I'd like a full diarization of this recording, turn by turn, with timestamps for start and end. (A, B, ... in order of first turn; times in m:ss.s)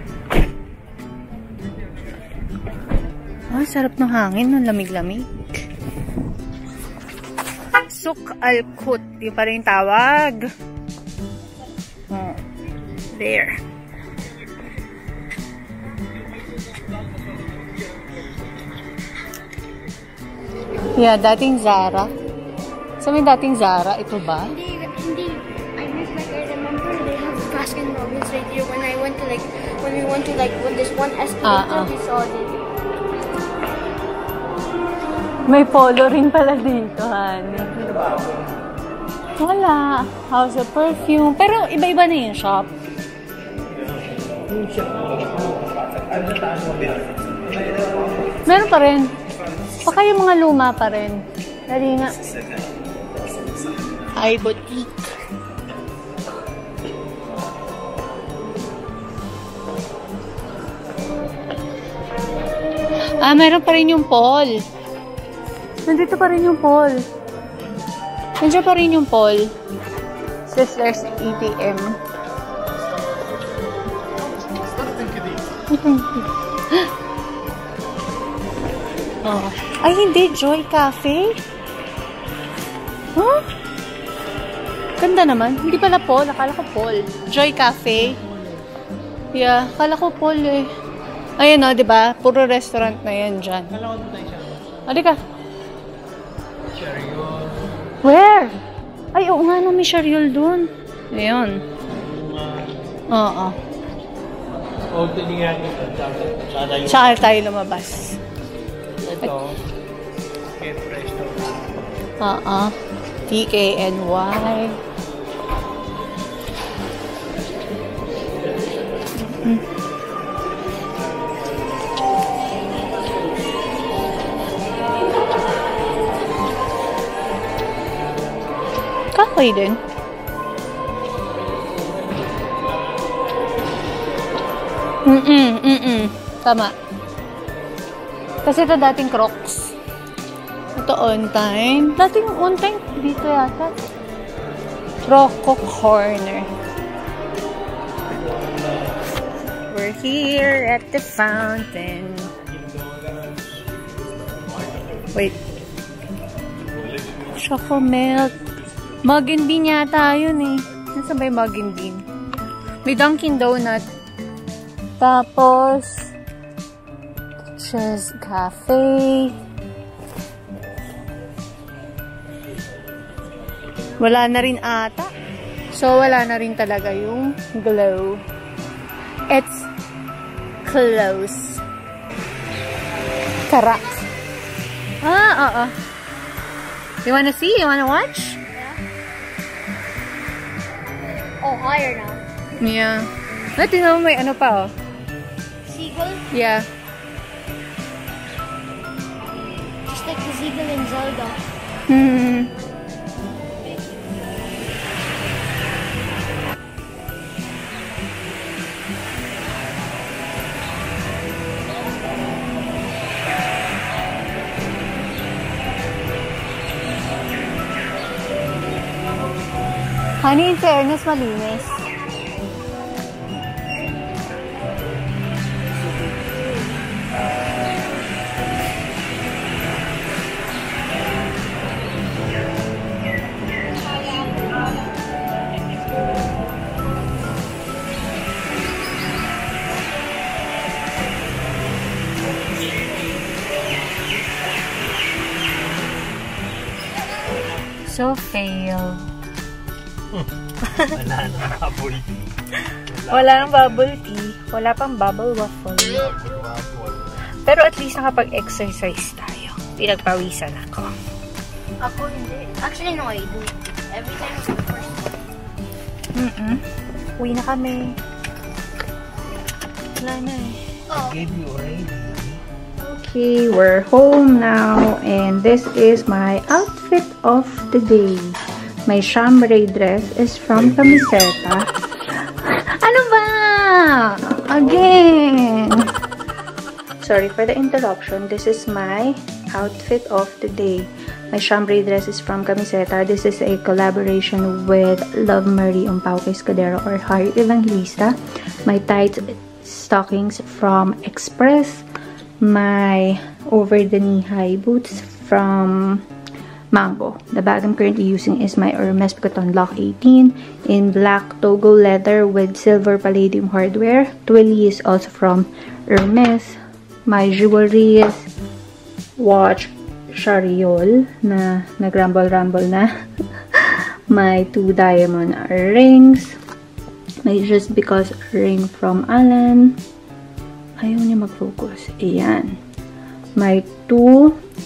0:03.5-0:05.5 A
0:07.9-0:10.4 A
0:12.1-0:12.4 A
0:13.1-0:13.6 A
0:20.9-0:22.1 A
0:23.0-0:24.6 A
0:24.5-0:32.6 B
0:31.4-0:32.0 A
0:35.4-0:37.8 A
0:39.4-0:42.7 A
0:48.4-0:49.2 A
0:49.8-0:52.2 A
0:54.1-0:55.1 A
1:03.2-1:04.6 A
1:05.8-1:07.1 A
1:08.4-1:09.5 A
1:10.4-1:12.0 A
1:15.7-1:16.8 A
1:19.2-1:21.4 A
1:23.2-1:23.5 A
1:25.0-1:28.2 A
1:29.3-1:30.7 A
1:31.4-1:33.7 A
1:33.7-1:34.6 C
1:34.8-1:35.2 A
1:36.7-1:37.6 C
1:38.0-1:38.6 A
1:39.1-1:41.6 A
1:42.0-1:42.8 C
1:43.1-1:43.6 A
1:44.9-1:47.1 C
1:46.8-1:48.2 A
1:49.0-1:49.5 C
1:49.2-1:49.6 A
1:50.5-1:51.7 C
1:52.2-1:54.8 A
1:59.2-1:59.6 A
2:09.1-2:09.8 A
2:15.0-2:16.8 A
2:18.4-2:19.8 A
2:20.8-2:23.8 A
2:25.0-2:26.5 A
2:29.7-2:32.3 A
2:35.1-2:35.4 A
2:37.2-2:38.4 A
2:39.0-2:42.0 A
2:42.8-2:43.8 A
2:45.0-2:46.1 A
2:47.5-2:49.4 A
2:54.0-2:55.1 A
2:55.7-2:58.2 A
2:59.3-2:59.7 A
3:00.6-3:01.6 A
3:03.4-3:04.0 A
3:05.0-3:05.7 A
3:07.0-3:08.4 A
3:08.5-3:08.8 B
3:11.4-3:12.2 B
3:12.6-3:14.7 A
3:15.6-3:16.3 B
3:16.3-3:16.7 A
3:19.9-3:21.4 B
3:21.9-3:22.5 A
3:40.2-3:41.9 A
4:07.8-4:09.1 A
4:10.1-4:14.0 C
4:10.7-4:10.9 A
4:13.1-4:16.2 A
4:16.0-4:17.2 C
4:17.4-4:20.9 A
4:21.8-4:25.2 B
4:26.1-4:26.6 A
4:27.2-4:28.0 A
4:30.0-4:30.6 A
4:30.9-4:31.2 B
4:30.9-4:32.4 C
4:32.8-4:45.9 A
4:47.0-5:01.8 A
5:02.4-5:06.0 A
5:06.7-5:18.3 A
5:19.2-5:22.9 A
5:23.5-5:26.4 A
5:27.2-5:29.8 A
5:30.8-5:32.6 A
5:33.4-5:34.4 A